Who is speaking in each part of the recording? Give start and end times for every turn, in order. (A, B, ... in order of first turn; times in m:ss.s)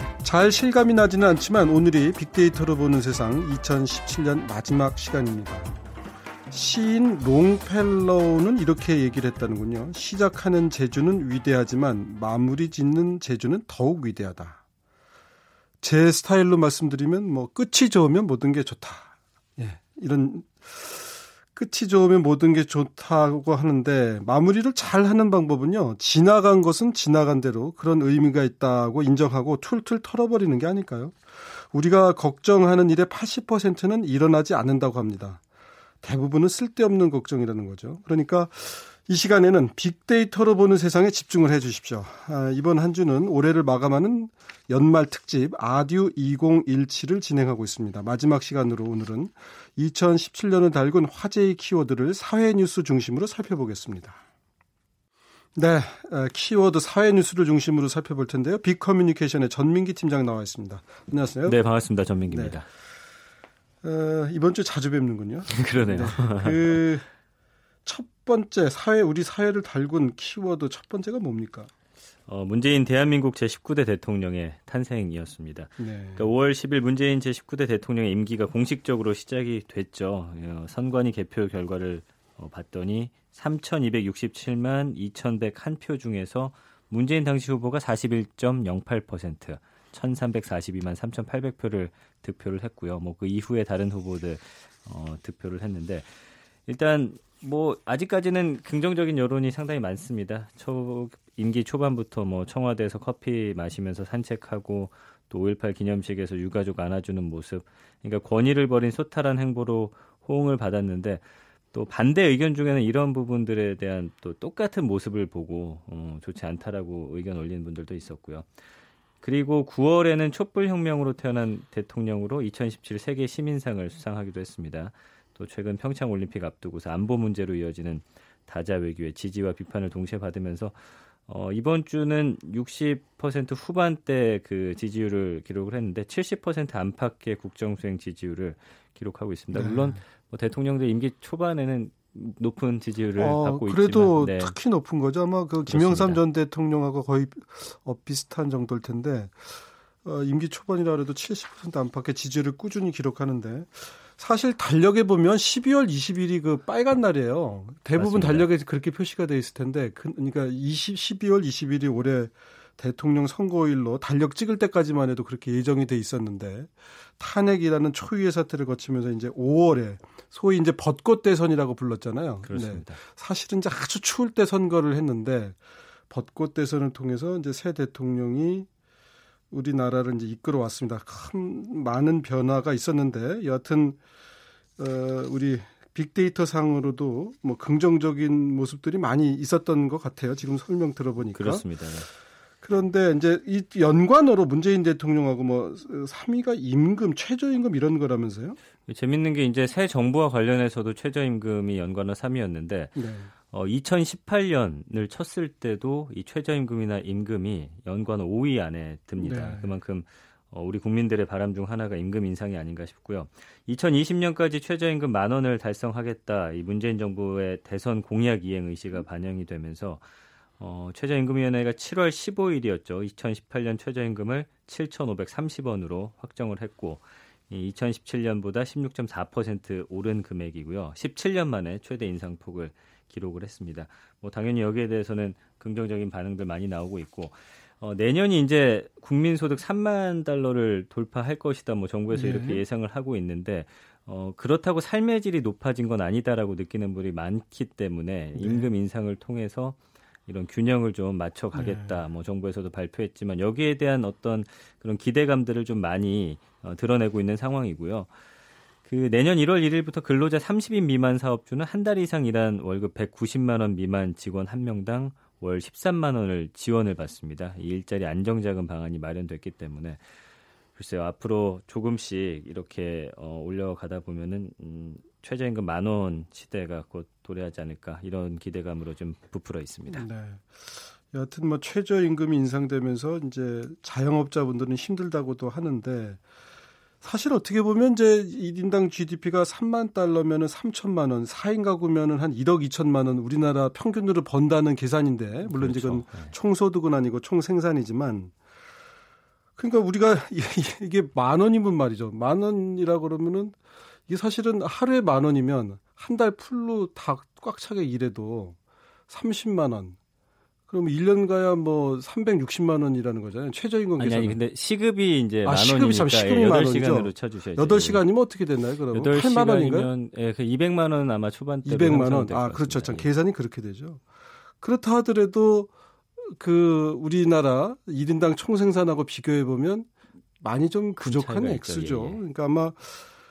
0:00.2-0:05.8 A
0:06.5-0:14.6 A
0:15.8-0:35.4 A
0:36.0-0:54.2 A
0:55.6-1:01.6 A
1:01.5-1:02.6 B
1:02.3-1:02.6 A
1:03.8-1:07.0 A
1:05.5-1:06.8 B
1:07.8-1:11.7 A
1:12.3-1:36.1 B
1:15.8-1:16.2 A
1:36.7-1:58.5 B
1:59.2-2:24.6 B
2:19.5-2:20.0 A
2:23.2-2:55.6 A
2:25.7-2:26.2 B
2:38.0-2:38.5 B
2:52.4-2:53.0 B
2:56.1-2:58.7 A
2:59.5-3:04.0 A
3:04.8-3:11.7 A
3:11.4-3:12.1 B
3:12.6-3:18.6 A
3:18.9-3:40.0 B
3:23.0-3:23.3 A
3:29.2-3:29.7 A
3:40.6-4:18.1 B
4:02.1-4:02.6 A
4:08.4-4:08.7 A
4:11.5-4:12.0 A
4:18.8-4:30.0 B
4:30.8-4:40.1 B
4:39.9-4:46.2 A
4:47.0-4:58.3 A
4:55.4-4:56.3 B
4:59.6-5:03.6 A
5:04.1-5:08.6 A
5:09.1-5:10.0 A
5:10.7-5:14.4 A
5:14.0-5:18.0 B
5:15.4-5:19.9 A
5:18.9-5:23.1 B
5:21.7-5:24.0 A
5:24.6-5:29.9 A
5:30.4-5:33.1 A
5:31.0-5:32.2 B